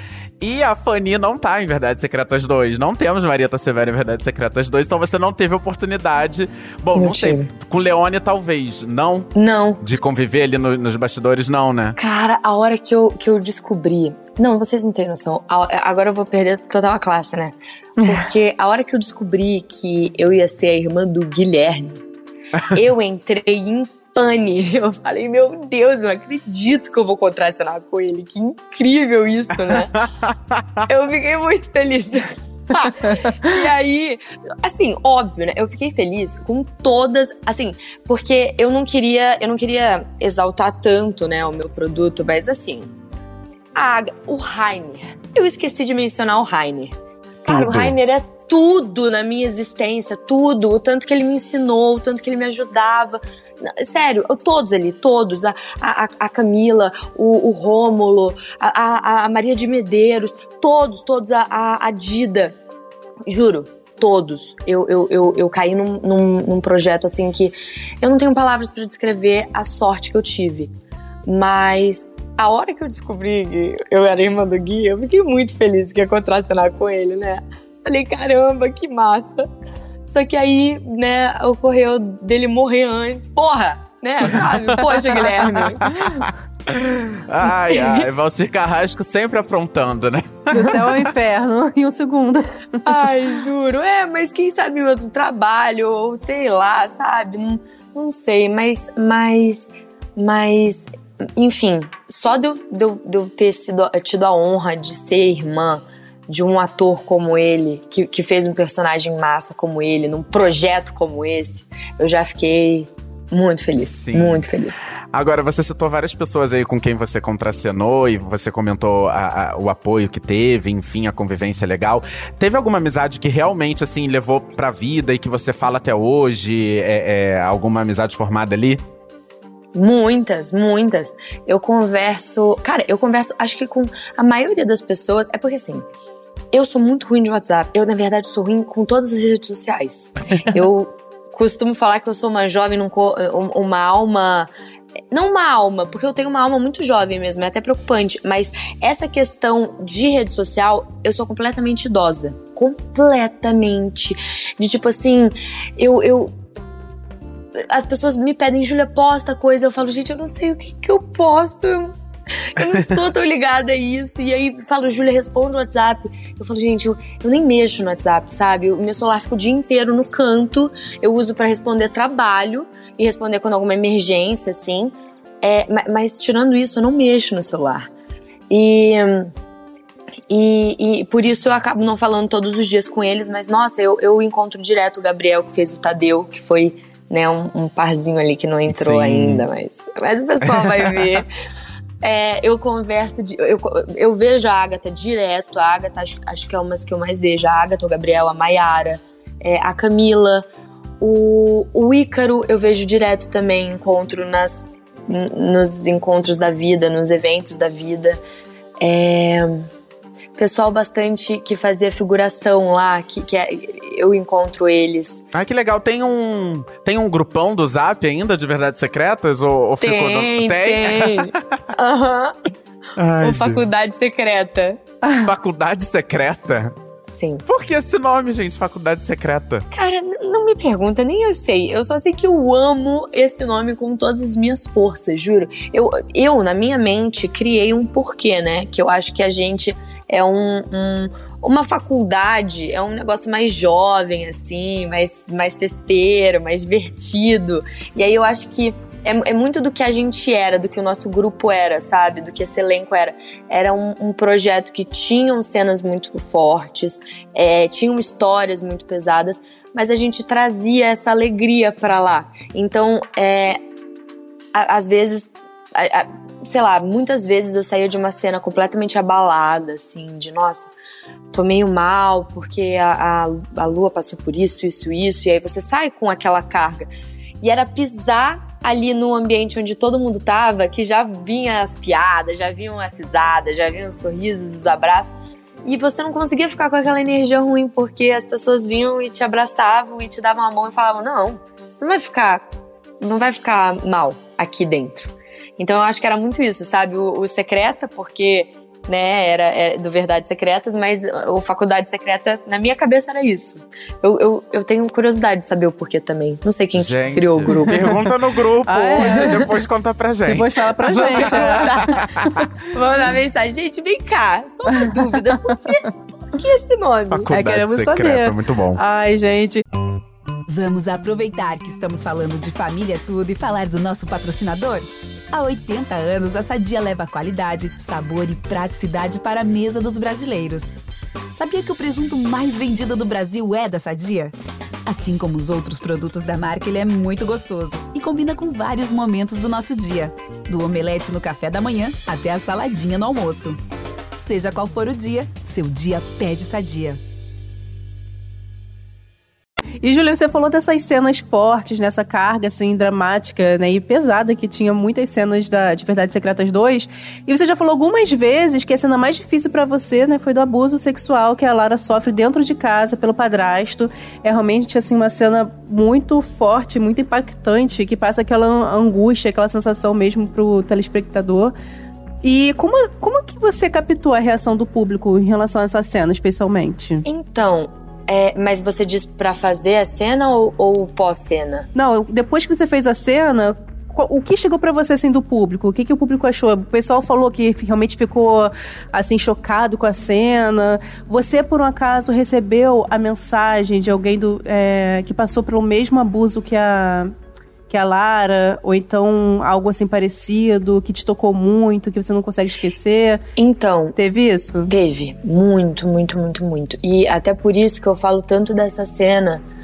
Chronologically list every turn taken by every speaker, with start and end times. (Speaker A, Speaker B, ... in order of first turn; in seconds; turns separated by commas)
Speaker A: 0.4-9.3, Speaker B: 7.0-7.5, Speaker B: 9.3-9.8, Speaker A: 9.8-12.0, Speaker B: 12.0-22.0, Speaker B: 22.7-30.0, Speaker A: 29.7-30.8, Speaker B: 30.9-42.9, Speaker B: 43.8-46.9, Speaker B: 47.5-62.5, Speaker A: 47.5-47.9, Speaker B: 63.3-70.7, Speaker B: 71.3-79.5, Speaker B: 80.1-86.3, Speaker A: 84.3-91.1, Speaker B: 87.7-88.1, Speaker C: 90.5-92.8, Speaker B: 92.8-114.9, Speaker A: 113.8-114.4, Speaker A: 115.1-128.8, Speaker B: 129.8-135.9, Speaker B: 136.5-144.5, Speaker B: 145.1-156.3, Speaker B: 157.6-177.9, Speaker B: 178.5-179.3, Speaker B: 180.3-191.3, Speaker A: 188.7-189.5, Speaker B: 192.0-200.4, Speaker B: 201.0-208.2, Speaker B: 208.8-209.7, Speaker B: 210.4-215.2, Speaker A: 215.3-221.6, Speaker B: 219.8-222.4, Speaker A: 223.0-223.6, Speaker B: 223.2-224.8, Speaker A: 225.2-226.7, Speaker B: 227.1-227.4, Speaker A: 227.5-229.7, Speaker B: 229.7-263.6, Speaker B: 264.5-270.7, Speaker B: 271.3-276.9, Speaker B: 277.4-292.4, Speaker B: 293.0-308.0, Speaker A: 306.8-312.4, Speaker C: 308.7-309.5, Speaker B: 309.0-309.5, Speaker C: 310.3-311.9, Speaker B: 310.9-312.0, Speaker B: 312.7-317.3, Speaker C: 314.8-315.5, Speaker A: 317.1-318.8, Speaker C: 317.3-319.6, Speaker D: 320.5-330.8, Speaker D: 331.4-334.3, Speaker D: 334.9-343.6, Speaker D: 344.2-347.0, Speaker C: 349.8-371.5, Speaker C: 372.2-377.1, Speaker B: 377.1-381.7, Speaker C: 381.8-397.1, Speaker C: 397.7-403.2, Speaker B: 403.4-403.9, Speaker C: 404.0-404.7, Speaker B: 404.7-409.4